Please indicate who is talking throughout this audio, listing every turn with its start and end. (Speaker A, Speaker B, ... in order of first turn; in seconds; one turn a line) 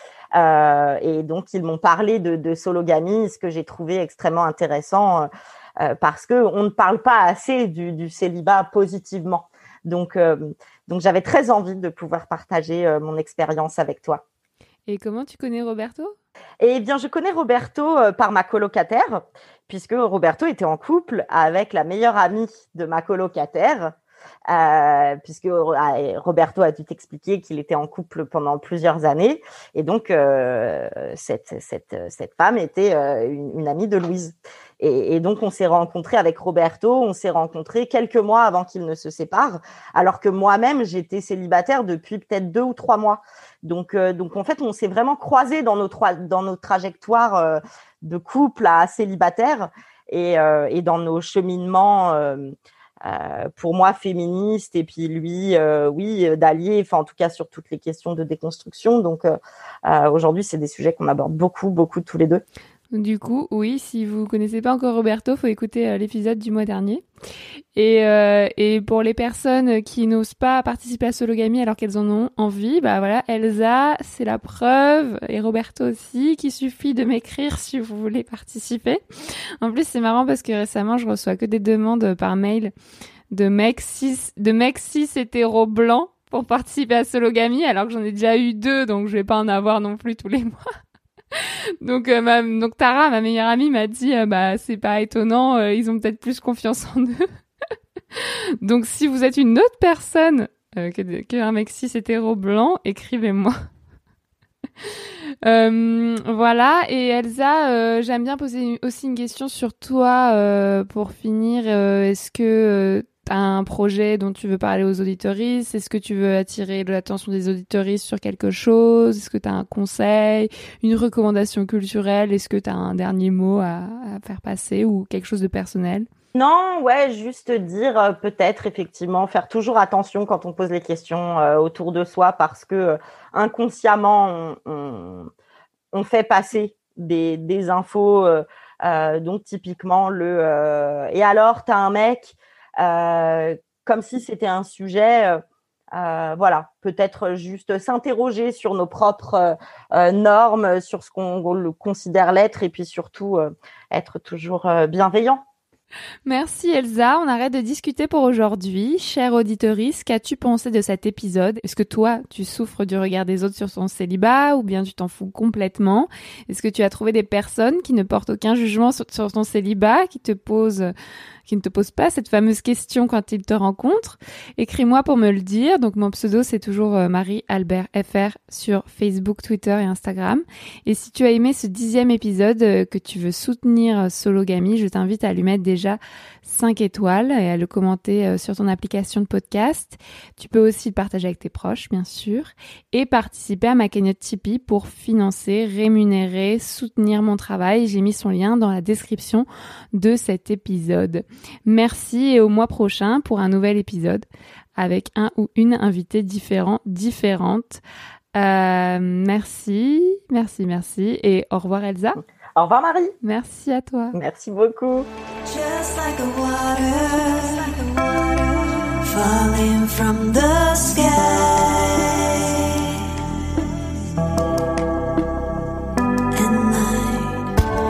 Speaker A: 0.3-14.2
Speaker B: 14.9-16.1
Speaker A: 16.6-23.9
Speaker A: 24.5-62.4
Speaker B: 62.9-67.0
Speaker B: 67.7-79.0
Speaker B: 79.6-82.7
Speaker B: 83.3-90.6
Speaker B: 91.3-97.2
Speaker B: 98.2-103.5
Speaker B: 105.4-126.1
Speaker A: 126.3-135.3
Speaker A: 135.9-145.4
Speaker A: 145.9-155.4
Speaker B: 156.2-170.9
Speaker B: 171.5-204.2
Speaker B: 204.8-207.8
Speaker B: 208.3-212.2
Speaker A: 212.5-213.1
Speaker B: 213.2-214.2
Speaker A: 214.1-215.1
Speaker C: 215.4-222.6
Speaker C: 226.3-227.5